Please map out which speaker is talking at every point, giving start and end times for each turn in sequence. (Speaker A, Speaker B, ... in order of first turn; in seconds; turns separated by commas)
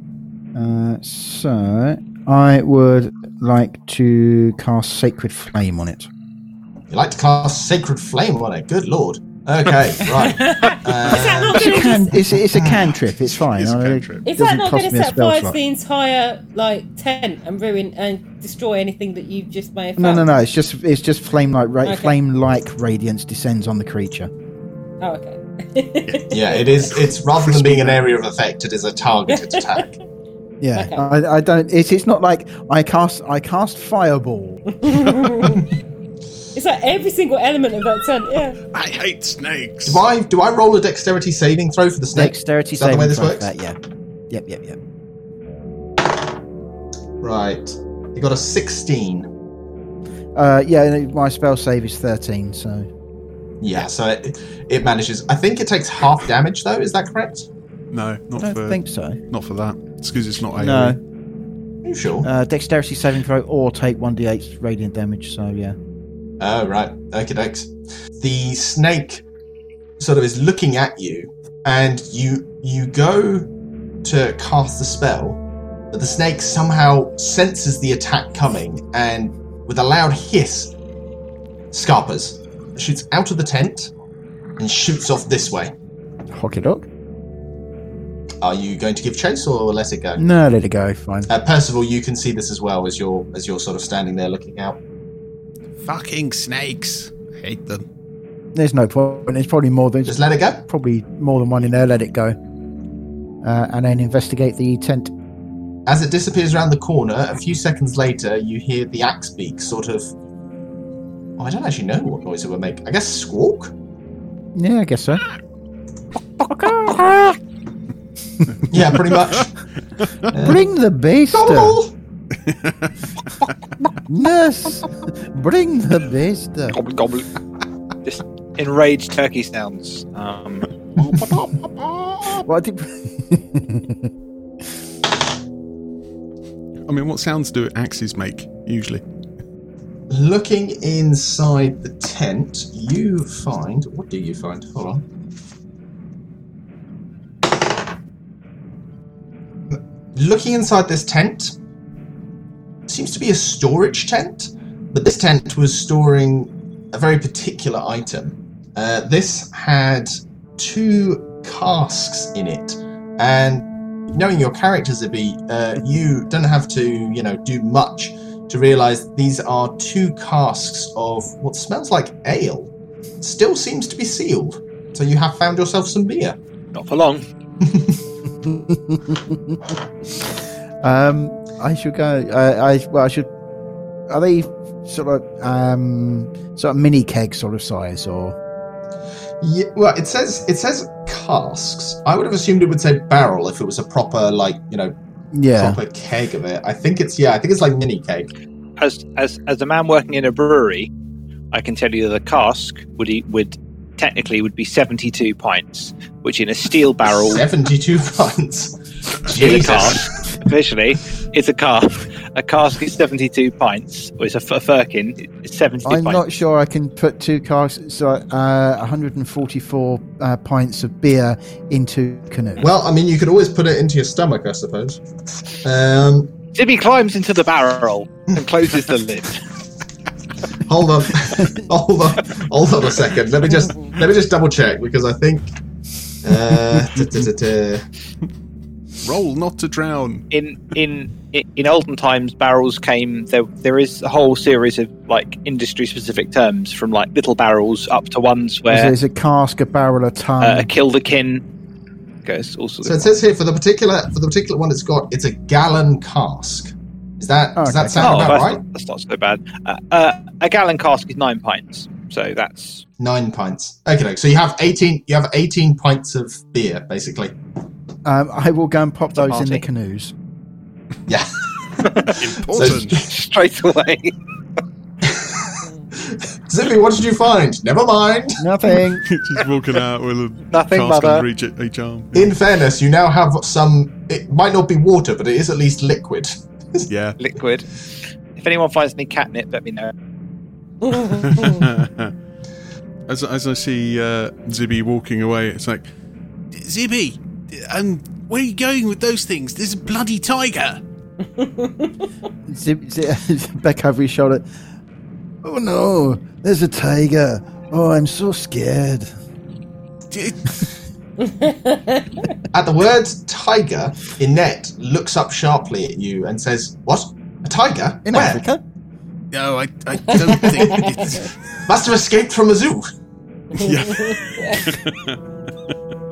Speaker A: 0.6-6.1, Speaker B: 6.9-12.9, Speaker C: 10.1-12.1, Speaker A: 11.5-15.6, Speaker D: 12.7-14.2, Speaker C: 14.2-20.3, Speaker A: 20.0-24.3, Speaker C: 21.8-22.1, Speaker C: 25.0-26.6, Speaker B: 26.3-29.9, Speaker D: 27.4-28.0, Speaker C: 29.3-29.9, Speaker A: 30.6-34.6, Speaker C: 30.7-31.1, Speaker C: 34.8-35.6, Speaker C: 36.5-38.6, Speaker D: 38.7-40.0, Speaker B: 39.9-43.5, Speaker A: 42.1-43.8, Speaker A: 44.3-44.8, Speaker B: 47.2-49.3, Speaker A: 50.3-52.9, Speaker B: 53.6-57.5, Speaker D: 57.9-61.0, Speaker A: 58.4-59.2, Speaker A: 60.6-61.0, Speaker B: 61.8-62.3, Speaker A: 62.2-65.8, Speaker B: 66.4-69.2, Speaker B: 70.0-73.5, Speaker B: 74.0-80.7, Speaker B: 81.7-83.9, Speaker B: 84.6-85.7, Speaker A: 86.3-86.9, Speaker B: 88.4-90.2, Speaker A: 90.2-91.3, Speaker B: 91.3-94.8, Speaker D: 95.8-97.9, Speaker A: 98.5-102.4, Speaker B: 100.0-100.6, Speaker A: 103.4-105.1, Speaker B: 105.9-110.1, Speaker B: 111.4-113.7, Speaker A: 114.5-115.2, Speaker A: 116.4-117.4, Speaker B: 118.7-119.6, Speaker D: 120.0-120.3, Speaker B: 120.3-120.6, Speaker A: 120.4-121.8, Speaker B: 121.3-121.9, Speaker D: 122.3-123.5, Speaker A: 124.1-126.8, Speaker E: 126.7-127.3, Speaker E: 128.0-130.7, Speaker A: 131.1-131.4, Speaker D: 131.1-132.4, Speaker A: 132.3-134.1, Speaker D: 136.9-139.0, Speaker B: 140.1-145.0, Speaker B: 149.7-151.6, Speaker B: 152.9-176.4, Speaker E: 176.7-177.2, Speaker B: 177.6-178.0, Speaker A: 178.4-183.3, Speaker A: 184.1-188.4, Speaker B: 189.4-194.9, Speaker A: 195.3-195.8, Speaker B: 195.5-198.3, Speaker E: 198.8-200.9, Speaker E: 201.5-207.4, Speaker B: 207.1-210.1, Speaker E: 209.3-216.4, Speaker A: 215.8-222.7, Speaker B: 222.6-225.0, Speaker B: 225.6-226.3, Speaker E: 226.5-229.5, Speaker B: 230.6-235.5, Speaker B: 236.2-237.9, Speaker D: 239.0-240.3, Speaker E: 240.3-248.9, Speaker A: 248.7-250.7, Speaker E: 250.4-251.4, Speaker E: 252.2-253.1, Speaker B: 252.8-258.6, Speaker A: 257.6-258.4, Speaker E: 258.0-262.8, Speaker B: 263.0-267.3, Speaker A: 268.1-270.1, Speaker E: 269.1-269.6, Speaker B: 271.1-272.9, Speaker D: 272.1-273.1, Speaker E: 272.9-274.1, Speaker B: 275.1-278.4, Speaker A: 278.4-279.1, Speaker D: 279.1-282.3, Speaker E: 280.5-281.3, Speaker B: 282.1-286.9, Speaker D: 286.9-287.2, Speaker E: 287.2-287.8, Speaker E: 288.3-289.9, Speaker C: 290.8-291.4, Speaker D: 291.2-292.1, Speaker D: 293.1-295.9, Speaker D: 296.5-300.8, Speaker C: 301.4-302.1, Speaker A: 302.5-304.5, Speaker A: 305.4-309.1, Speaker D: 310.1-310.6, Speaker C: 311.2-312.3, Speaker B: 312.5-318.4, Speaker A: 318.1-318.6, Speaker D: 319.3-321.3, Speaker B: 320.2-320.8, Speaker C: 320.8-321.3, Speaker B: 321.6-322.9, Speaker D: 323.5-325.7, Speaker C: 323.6-324.7